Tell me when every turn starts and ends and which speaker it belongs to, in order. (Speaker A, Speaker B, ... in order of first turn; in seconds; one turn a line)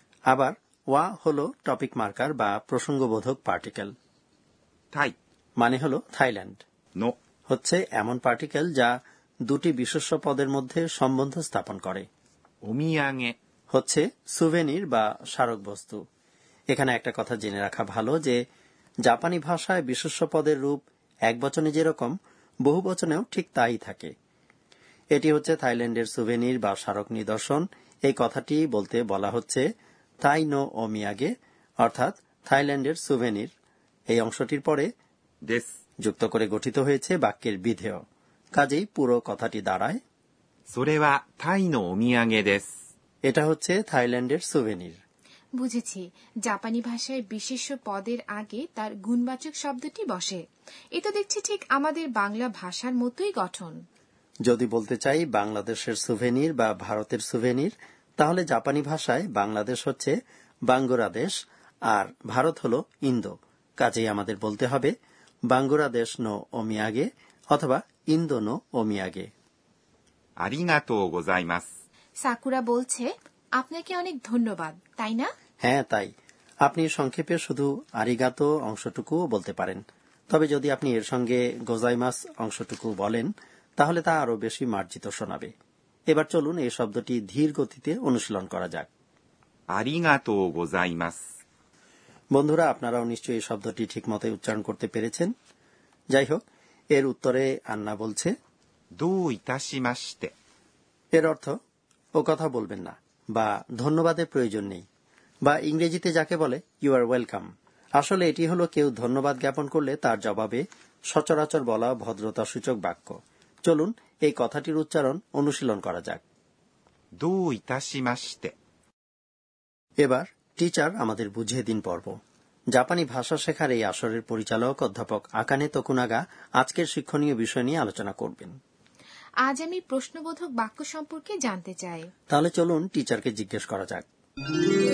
Speaker A: 0.3-3.9
Speaker A: 5.6-6.6
Speaker A: 7.5-8.9
Speaker A: 9.5-12.1
Speaker B: 12.7-13.3
Speaker A: 13.7-16.0
Speaker A: 16.7-18.4
Speaker A: 19.1-24.1
Speaker A: 25.1-29.6
Speaker A: 30.2-31.3
Speaker A: 31.8-33.5
Speaker A: 34.1-34.9
Speaker A: 36.0-38.0
Speaker A: 38.6-40.0
Speaker B: 40.7-42.6
Speaker A: 43.3-45.0
Speaker C: 45.6-50.4
Speaker C: 51.0-53.8
Speaker A: 54.5-60.1
Speaker A: 60.7-61.3
Speaker A: 61.9-64.9
Speaker A: 65.5-69.3
Speaker B: 70.4-71.7
Speaker C: 72.2-75.3
Speaker A: 75.6-76.1
Speaker A: 76.7-85.5
Speaker A: 86.1-88.9
Speaker B: 89.7-91.2
Speaker A: 92.3-95.3
Speaker A: 96.1-96.4
Speaker A: 96.9-98.3
Speaker B: 99.0-100.3
Speaker A: 101.1-101.5
Speaker A: 102.2-104.8
Speaker A: 105.5-116.2
Speaker B: 117.2-118.5
Speaker A: 120.0-122.1
Speaker A: 122.7-128.6
Speaker C: 129.4-132.1
Speaker A: 132.3-134.0